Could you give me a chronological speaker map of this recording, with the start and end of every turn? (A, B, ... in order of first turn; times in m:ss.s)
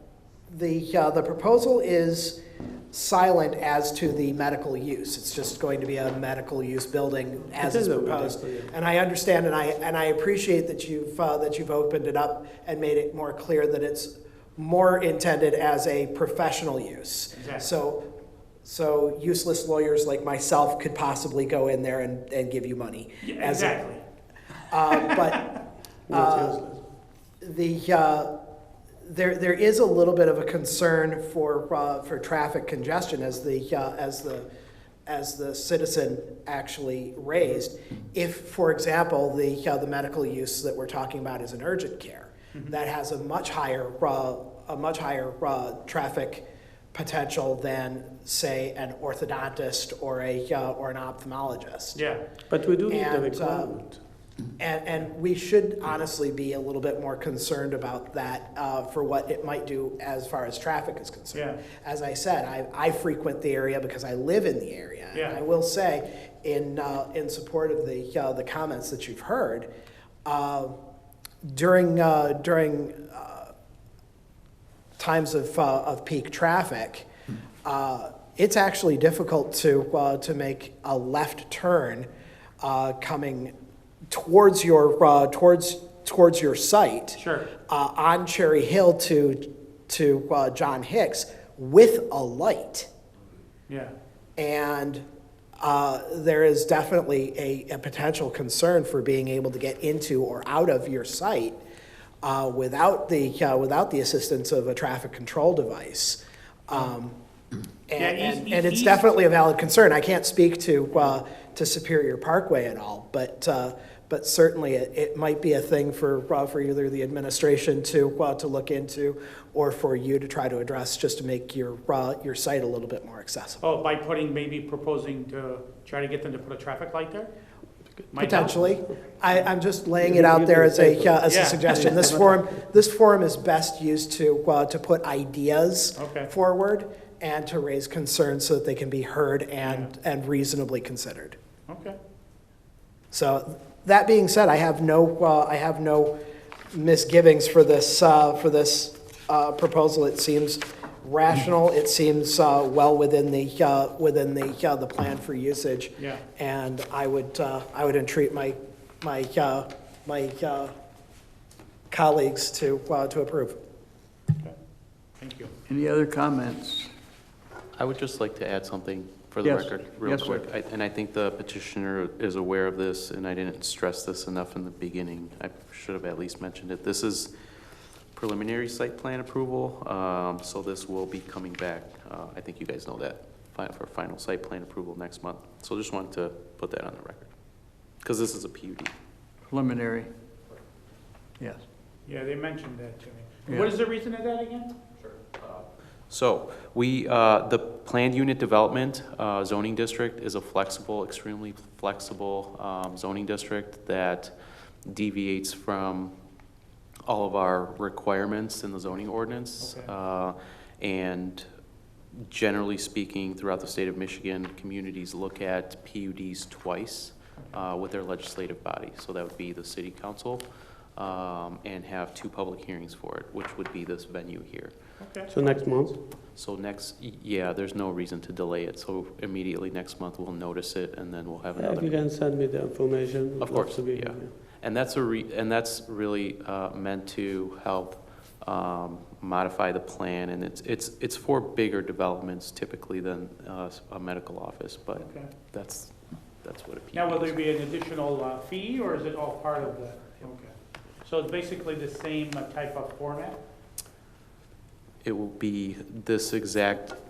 0:00.5-0:02.4 A
0:02.9-0:18.0 A
0:07.6-0:08.7 B
0:17.3-0:17.7 C
0:18.6-0:23.8 A
0:23.2-0:24.0 C
0:24.7-0:25.5 A
0:26.1-0:26.8 B
0:26.1-0:26.6 A
0:27.4-0:28.3 A
0:29.0-0:34.5 A
0:35.1-0:52.0 A
0:51.9-0:52.2 C
0:52.5-0:54.0 B
0:52.9-0:53.8 A
0:54.6-1:09.7 A
1:01.3-1:01.6 C
1:10.2-1:10.8 A
1:11.4-1:13.5 A
1:15.0-1:17.1 A
1:17.6-1:22.0 A
1:22.6-1:23.5 A
1:24.1-1:27.2 A
1:27.2-1:27.5 C
1:27.7-1:32.9 A
1:33.7-1:33.9 C
1:34.4-1:35.0 A
1:35.6-1:41.6 A
1:42.2-1:47.1 A
1:47.9-2:03.6 A
1:48.0-1:49.1 C
2:03.6-2:07.3 C
2:08.1-2:08.8 C
2:08.2-2:21.4 A
2:10.0-2:11.2 B
2:11.2-2:12.1 C
2:11.7-2:12.4 B
2:16.0-2:16.3 C
2:19.6-2:19.9 C
2:21.7-2:22.0 C
2:23.1-2:26.2 A
2:26.7-2:40.7 A
2:41.9-2:43.6 A
2:45.2-2:45.5 C
2:45.7-2:46.9 D
2:47.8-2:57.3 E
2:49.4-2:50.5 D
2:58.1-3:07.3 E
3:08.0-3:08.9 E
3:09.5-3:10.1 D
3:11.4-3:11.6 D
3:12.0-3:14.7 C
3:15.1-3:24.3 E
3:24.8-3:26.1 E
3:27.0-3:31.4 E
3:29.6-3:29.9 C
3:32.1-3:44.7 E
3:45.0-3:46.0 C
3:45.3-3:46.0 B
3:46.3-3:52.0 E
3:51.5-3:54.3 B
3:53.4-4:07.4 E
4:05.0-4:05.3 C
4:06.9-4:10.5 C
4:11.0-4:13.4 C
4:15.0-4:17.0 E